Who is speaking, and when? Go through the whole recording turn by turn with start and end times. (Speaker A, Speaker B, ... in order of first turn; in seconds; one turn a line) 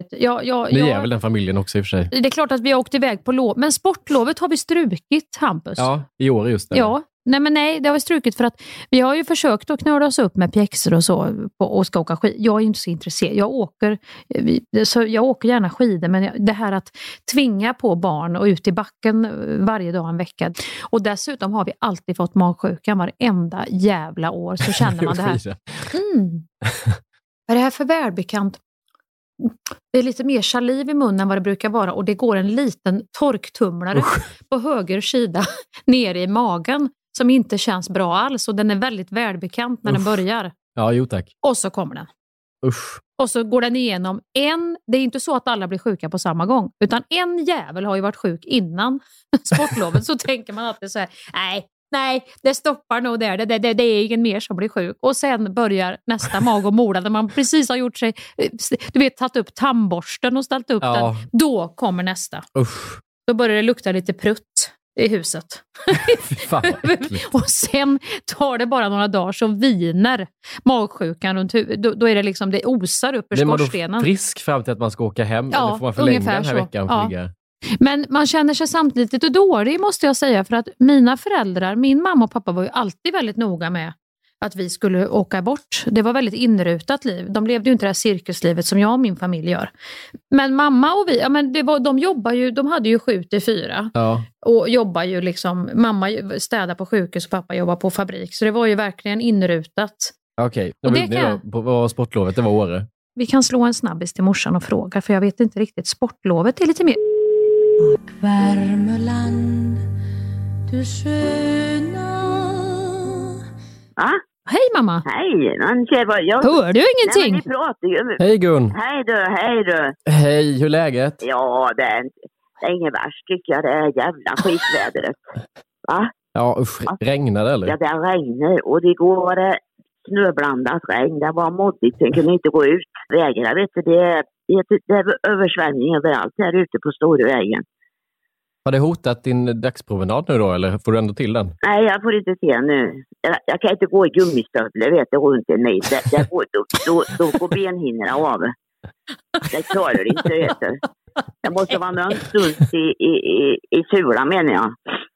Speaker A: 0.1-1.1
Speaker B: 0.7-2.1
Speaker A: 2.1-5.9
Speaker B: 5.8-6.9
Speaker A: 6.7-26.4
Speaker B: 24.8-25.6
Speaker A: 27.5-28.6
Speaker A: 29.4-40.5
Speaker B: 40.8-41.3
Speaker A: 41.4-42.1
Speaker B: 42.6-43.0
Speaker A: 43.2-62.5
Speaker B: 60.8-61.2
Speaker B: 62.5-63.0
Speaker A: 63.3-74.1
Speaker B: 66.3-67.2
Speaker B: 73.3-77.3
Speaker A: 75.5-77.1
Speaker A: 77.8-89.7
Speaker A: 90.3-100.1
Speaker B: 94.0-94.2
Speaker B: 100.4-102.8
Speaker A: 100.8-101.4
Speaker A: 103.2-107.0
Speaker C: 107.9-109.8
Speaker C: 110.7-113.2
Speaker A: 114.5-115.0
Speaker D: 115.0-118.2
Speaker A: 116.4-117.4
Speaker B: 118.2-118.7
Speaker D: 118.7-119.9
Speaker B: 120.1-121.2
Speaker D: 121.2-125.2
Speaker B: 126.3-127.7
Speaker D: 127.7-137.6
Speaker B: 138.6-141.5
Speaker D: 141.6-148.5
Speaker D: 149.5-150.8
Speaker D: 151.4-154.7